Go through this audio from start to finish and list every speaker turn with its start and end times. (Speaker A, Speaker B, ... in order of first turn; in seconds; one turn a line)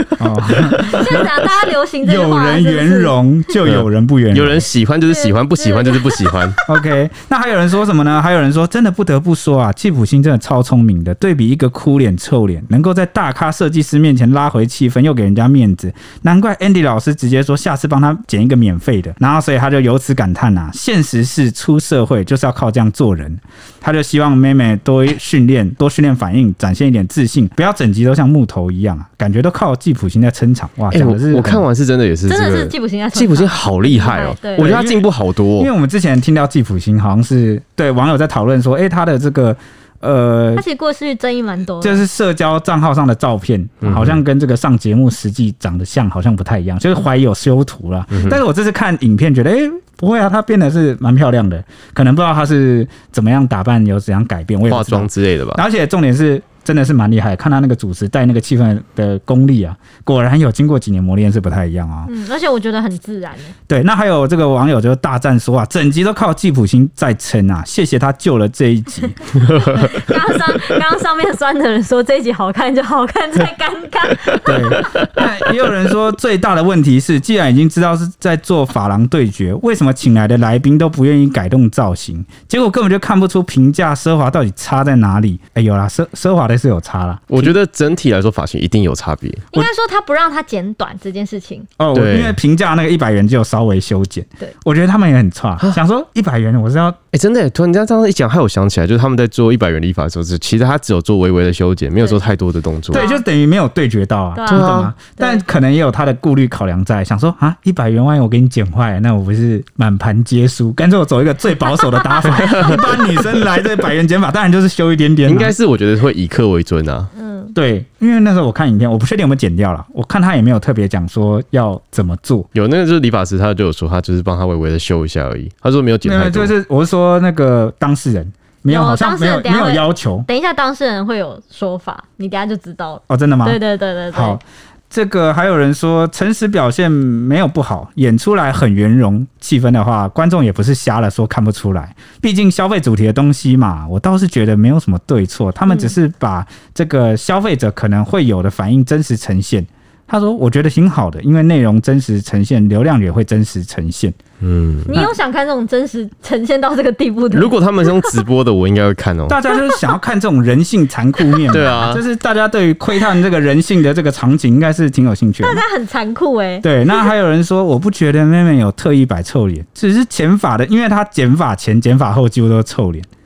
Speaker A: 0.2-1.3
Speaker B: 0.7-3.1
Speaker A: 2.0-4.7
Speaker C: 3.6-6.6
Speaker B: 5.0-6.6
Speaker A: 6.7-31.6
Speaker C: 30.9-35.7
Speaker B: 32.3-34.8
Speaker A: 34.6-40.6
Speaker B: 40.5-42.0
Speaker A: 41.8-62.1
Speaker C: 43.8-44.2
Speaker C: 48.1-48.4
Speaker C: 54.7-55.6
Speaker B: 62.0-63.5
Speaker A: 63.7-69.4
Speaker B: 69.4-75.1
Speaker C: 69.5-69.9
Speaker A: 74.4-87.5
Speaker C: 87.3-89.5
Speaker B: 89.5-91.7
Speaker A: 91.8-97.0
Speaker C: 91.9-92.4
Speaker C: 97.1-103.1
Speaker A: 102.9-115.5
Speaker B: 102.9-103.2
Speaker B: 104.3-105.4
Speaker C: 104.5-104.9
Speaker B: 112.0-112.8
Speaker C: 112.4-112.8
Speaker C: 115.2-117.1
Speaker B: 117.1-117.5
Speaker A: 117.5-122.5
Speaker C: 122.5-126.5
Speaker A: 126.0-130.3
Speaker B: 128.7-134.4
Speaker A: 133.1-133.6
Speaker A: 134.1-154.2
Speaker B: 145.7-145.9
Speaker C: 154.4-155.0
Speaker B: 154.9-158.2
Speaker C: 157.3-159.4
Speaker A: 159.3-165.6
Speaker B: 159.5-159.8
Speaker C: 161.5-162.0
Speaker B: 165.4-167.1
Speaker A: 166.6-173.1